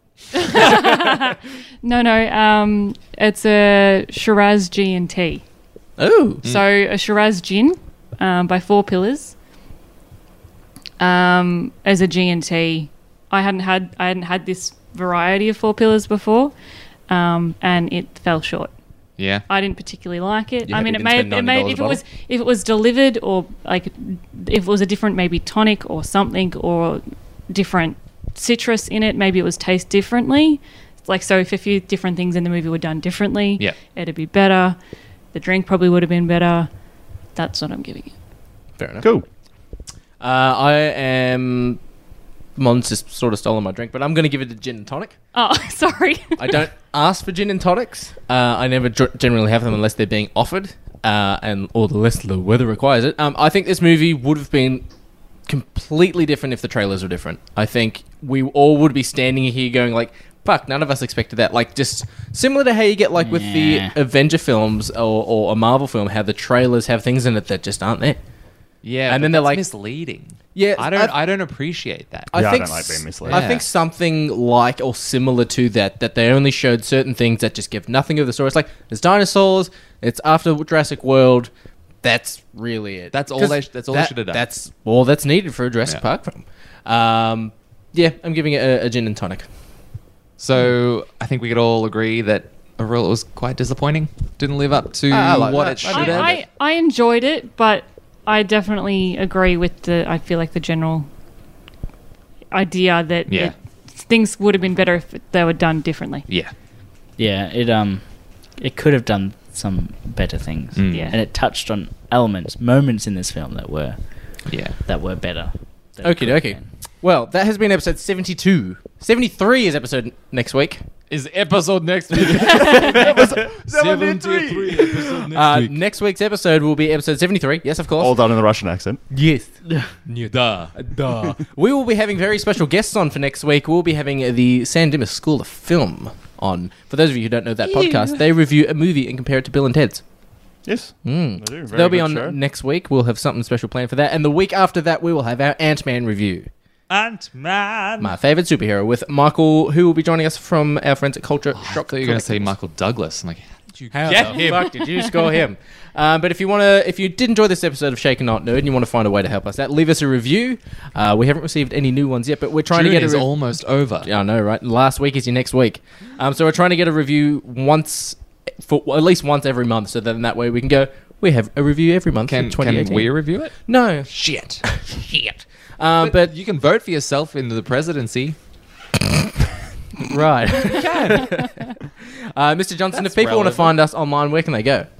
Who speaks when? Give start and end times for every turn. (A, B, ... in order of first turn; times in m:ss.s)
0:00.3-0:05.4 A
0:06.0-0:06.4 B
0:06.4-0:09.4 A
0:11.0-0:16.6 A
0:17.1-0:18.7 A
0:19.2-0:19.5 C
0:19.5-0:34.8 A
0:20.6-0:22.0 B
0:35.3-0:36.7 A
0:37.3-0:38.1 A
0:38.8-0:39.1 B
0:39.0-0:39.2 D
0:40.2-0:41.8 B
0:42.6-0:45.1 B
0:45.3-0:46.6 A
0:46.4-0:54.9 B
0:55.4-1:08.2 B
1:03.2-1:03.9 E
1:08.8-1:12.3 C
1:09.1-1:09.6 B
1:10.5-1:11.2 B
1:12.3-1:29.5 B
1:12.3-1:13.5 D
1:13.2-1:13.7 C
1:23.1-1:24.4 C
1:30.4-1:36.4 C
1:35.1-1:36.4 B
1:35.9-1:41.1 A
1:42.5-1:46.2 A
1:43.3-1:43.5 C
1:46.3-1:46.5 C
1:47.2-1:56.7 E
1:50.7-1:51.2 C
1:50.9-1:51.2 A
1:54.5-1:54.8 C
1:56.0-2:00.8 B
2:01.1-2:05.8 C
2:02.8-2:05.0 D
2:05.2-2:08.2 B
2:08.0-2:09.0 D
2:09.1-2:09.5 B
2:10.1-2:11.4 C
2:11.4-2:20.1 B
2:17.7-2:18.1 C
2:20.6-2:22.4 D
2:21.0-2:26.5 B
2:26.9-2:28.1 C
2:28.0-2:32.6 B
2:31.5-2:34.6 C
2:33.9-2:54.1 B
2:34.5-2:34.7 A
2:42.7-2:44.1 C
2:52.3-2:54.8 C
2:54.6-2:56.3 B
2:56.0-2:58.4 C
3:00.1-3:01.4 B
3:00.6-3:01.5 C
3:02.3-3:04.9 B
3:02.9-3:03.8 C